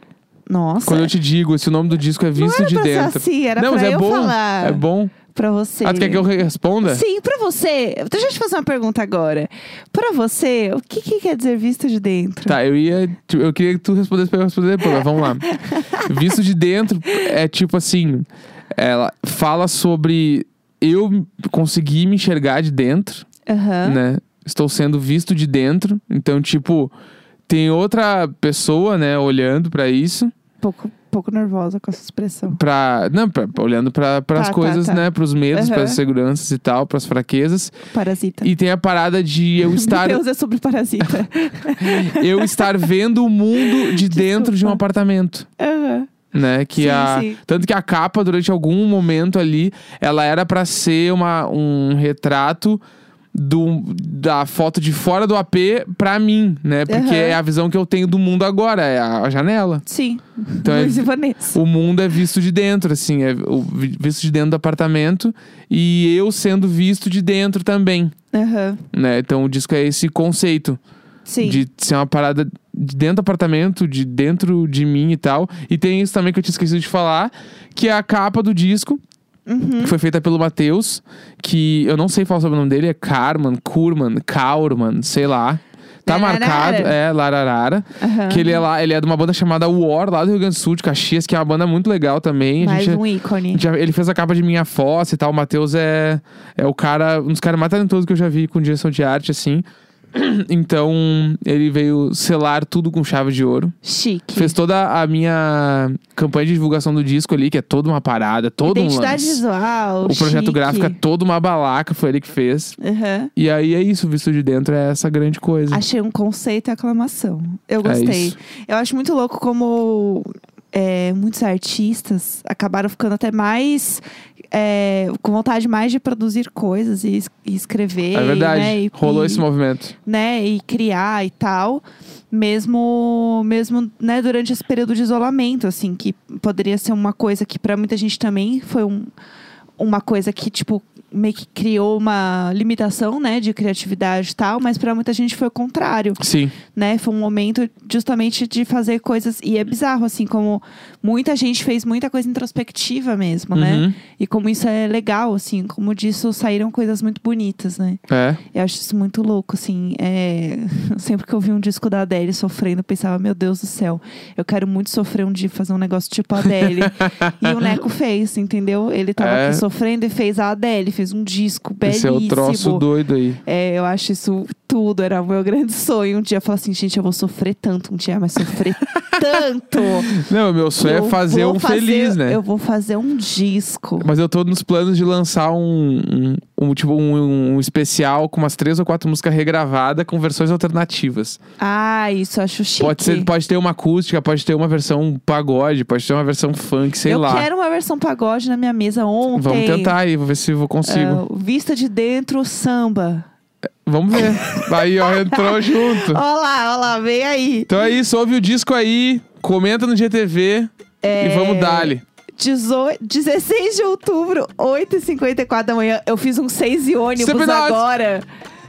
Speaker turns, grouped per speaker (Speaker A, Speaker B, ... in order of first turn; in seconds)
Speaker A: 0.5-1.1, 2.4-6.3, 6.8-12.6, 15.4-16.1, 23.5-24.0, 30.6-32.6, 34.4-36.0, 37.9-38.5, 39.6-42.8, 43.6-44.8, 45.6-46.1, 46.7-47.4, 56.9-57.4, 59.9-61.6, 68.3-68.8, 71.2-71.6, 79.5-79.9, 86.1-86.9, 88.0-88.6, 92.6-93.6, 103.8-104.6, 108.6-111.0, 112.8-113.3, 115.7-129.4, 130.1-139.1, 139.8-146.2, 146.7-158.0, 158.5-172.9, 173.4-180.2, 180.8-184.1, 191.6-193.3, 197.1-199.9, 200.8-203.3, 204.2-207.8, 211.0-218.2
Speaker B: 0.9-5.1, 5.8-7.0, 12.4-23.2, 23.8-26.9, 27.5-30.3, 32.5-37.7, 38.4-40.2, 41.8-45.5, 46.3-52.8, 53.3-59.8, 60.6-68.1, 68.9-70.8, 71.4-79.0, 79.8-103.7, 104.3-109.4, 110.0-112.7, 113.4-115.8, 117.8-118.3, 128.1-129.9, 146.2-146.6, 153.5-153.9, 158.1-158.4, 166.6-167.7, 169.2-169.6, 171.8-173.4, 179.8-182.4, 184.0-191.4, 192.8-197.5, 199.3-201.2, 203.9-206.2, 207.7-212.0, 217.2-217.8